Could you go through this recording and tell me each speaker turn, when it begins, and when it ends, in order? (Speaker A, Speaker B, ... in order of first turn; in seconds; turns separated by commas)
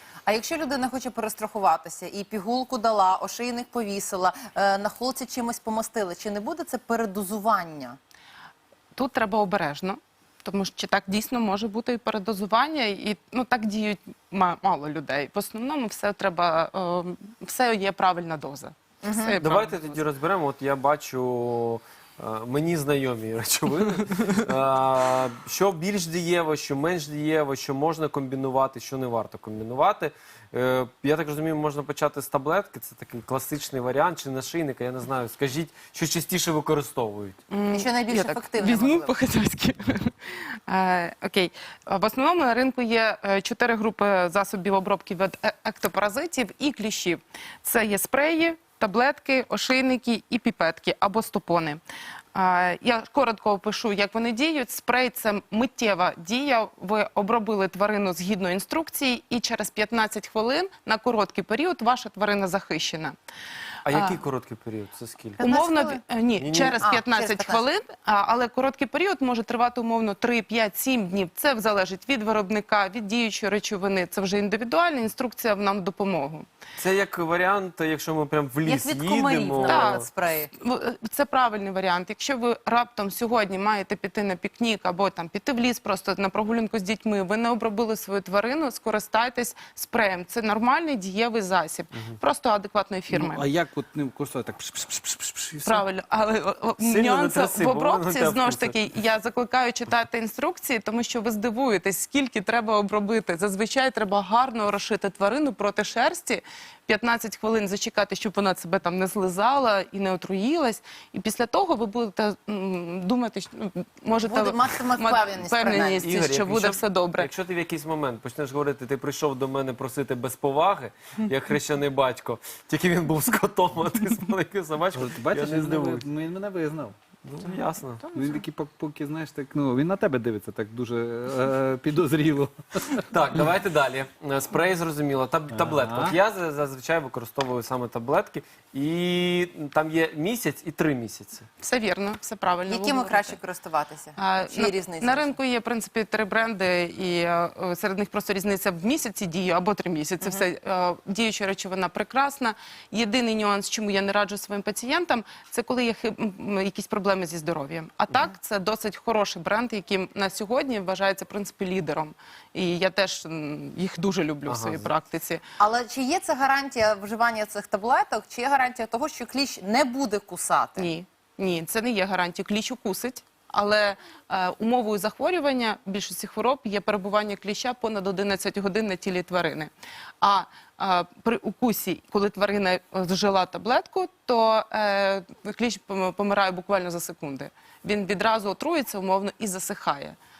Speaker A: 0.2-8.0, Speaker B: 8.9-20.0, Speaker A: 19.0-19.3, Speaker C: 19.4-37.4, Speaker B: 37.5-51.8, Speaker A: 37.7-39.2, Speaker B: 52.3-63.1, Speaker C: 63.9-65.4, Speaker B: 63.9-64.2, Speaker B: 65.4-76.5, Speaker A: 65.4-66.0, Speaker C: 66.4-66.8, Speaker A: 66.8-67.6, Speaker C: 76.8-80.0, Speaker A: 78.6-80.5, Speaker B: 79.6-80.0, Speaker B: 80.6-93.4, Speaker D: 93.1-95.8, Speaker B: 95.6-117.3, Speaker C: 96.8-98.8, Speaker A: 114.2-116.0, Speaker C: 116.0-126.1, Speaker D: 124.9-126.9, Speaker C: 127.2-128.0, Speaker D: 128.1-133.0, Speaker C: 133.1-141.5, Speaker D: 135.5-136.2, Speaker B: 141.6-143.4, Speaker A: 142.7-145.3, Speaker B: 144.2-165.4, Speaker C: 164.4-164.9, Speaker A: 165.6-170.9, Speaker B: 170.8-179.7, Speaker B: 180.2-190.2